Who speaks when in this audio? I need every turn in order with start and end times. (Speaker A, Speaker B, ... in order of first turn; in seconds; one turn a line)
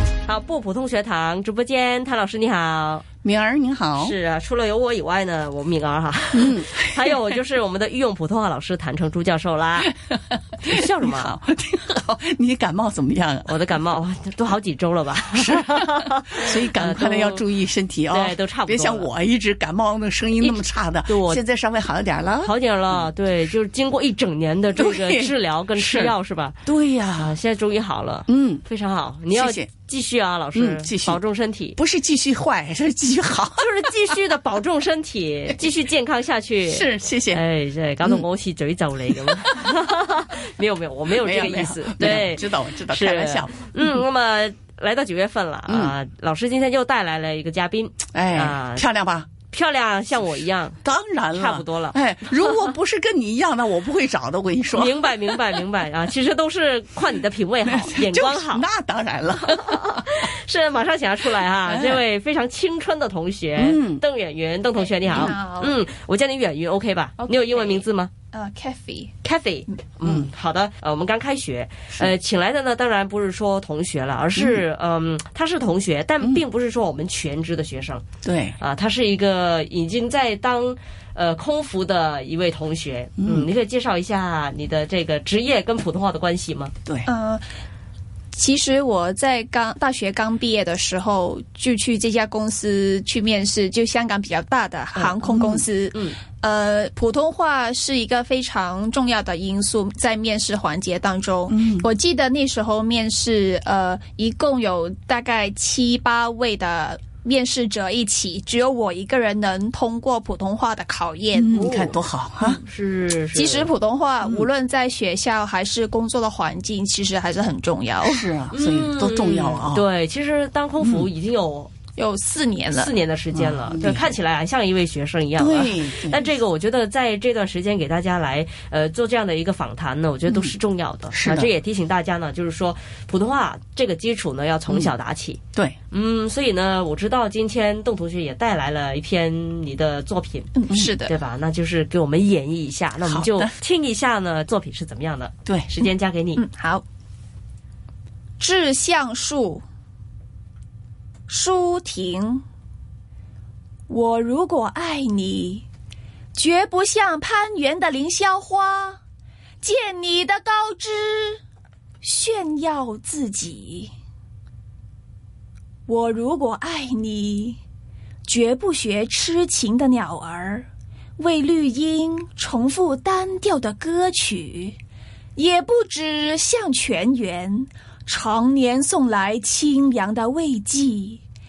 Speaker A: 0.2-3.0
Speaker B: 3.2-4.2
Speaker A: 4.0-9.9
Speaker B: 6.3-7.2
Speaker B: 9.9-13.7
Speaker A: 10.6-11.3
Speaker A: 13.4-17.4
Speaker B: 15.5-23.1
Speaker A: 18.1-19.1
Speaker A: 20.4-21.4
Speaker A: 22.4-26.6
Speaker B: 24.7-26.1
Speaker B: 26.6-27.4
Speaker A: 27.2-31.8
Speaker B: 28.3-28.6
Speaker B: 29.3-29.7
Speaker B: 30.5-31.2
Speaker B: 31.8-34.2
Speaker A: 33.6-48.9
Speaker B: 36.6-37.4
Speaker B: 39.2-39.6
Speaker B: 41.1-44.0
Speaker B: 45.7-45.9
Speaker B: 48.1-49.3
Speaker A: 49.5-50.8
Speaker B: 50.8-55.6
Speaker A: 51.3-52.6
Speaker A: 54.7-58.6
Speaker B: 57.6-60.0
Speaker A: 59.5-68.1
Speaker B: 61.6-62.0
Speaker B: 63.5-64.0
Speaker B: 65.1-65.3
Speaker C: 65.2-65.7
Speaker C: 67.2-67.8
Speaker C: 68.3-69.2
Speaker A: 69.2-78.0
Speaker B: 70.0-70.3
Speaker B: 74.3-74.6
Speaker B: 78.2-78.6
Speaker A: 78.6-86.7
Speaker B: 83.2-83.5
Speaker C: 87.1-87.4
Speaker C: 88.3-111.5
Speaker B: 95.0-95.6
Speaker A: 95.9-96.2
Speaker B: 101.5-101.9
Speaker B: 111.3-112.6
Speaker A: 111.5-113.7
Speaker C: 113.3-118.2
Speaker B: 118.0-119.8
Speaker A: 118.5-121.7
Speaker B: 120.8-121.1
Speaker C: 122.0-122.9
Speaker A: 122.7-135.4
Speaker B: 123.3-124.2
Speaker B: 125.4-126.3
Speaker B: 130.3-130.5
Speaker B: 131.1-131.5
Speaker B: 134.7-134.9
Speaker A: 135.9-146.4
Speaker C: 140.5-141.1
Speaker B: 143.1-143.5
Speaker C: 146.3-146.8
Speaker C: 148.4-149.6
Speaker C: 151.3-152.4
Speaker C: 153.9-155.6
Speaker C: 156.3-159.0
Speaker C: 159.6-161.4
Speaker C: 162.0-163.9
Speaker C: 165.9-167.6
Speaker C: 168.2-170.7
Speaker C: 171.2-174.8
Speaker C: 175.3-181.2